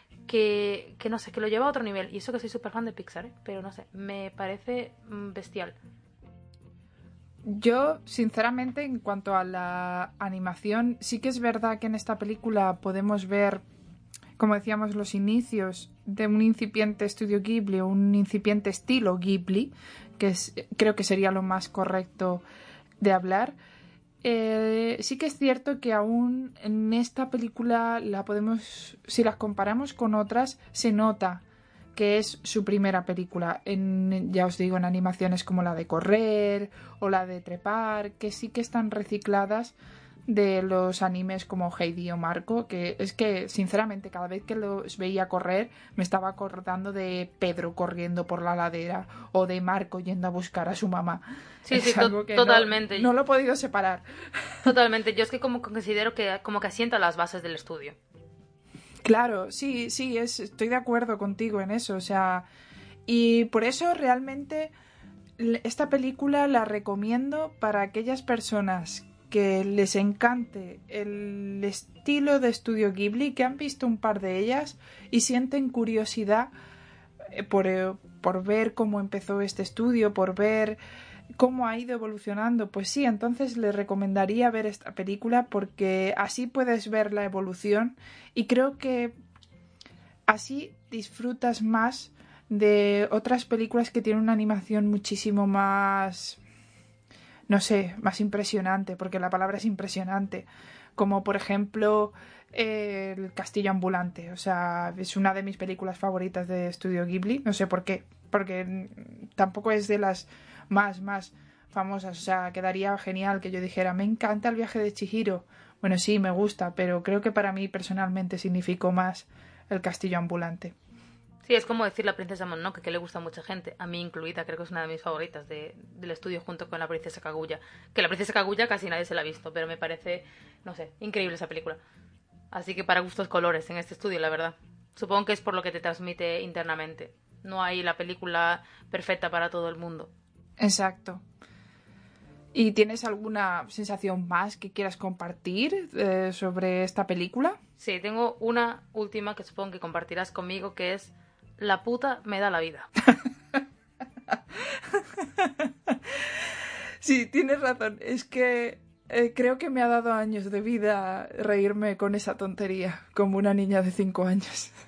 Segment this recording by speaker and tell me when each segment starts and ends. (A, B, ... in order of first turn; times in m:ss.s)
0:00.3-0:05.8 A
0:07.4-0:13.6 B
0:14.4-0:22.4 B
0:23.0-0:23.5 B
0:24.2-0:39.8 B
0:40.3-0:54.6 B
0:51.6-0:53.1 A
0:54.6-0:58.0 A
0:59.0-1:02.5 B
1:03.0-1:04.7 B
1:05.4-1:16.5 B
1:17.3-1:20.8 B
1:21.4-1:29.1 B
1:30.3-1:36.4 B
1:37.5-2:00.7 B
2:01.4-2:11.8 A
2:12.5-2:20.1 A
2:20.6-2:21.2 B
2:22.5-2:27.6 B
2:27.8-2:32.9 A
2:34.3-2:44.8 B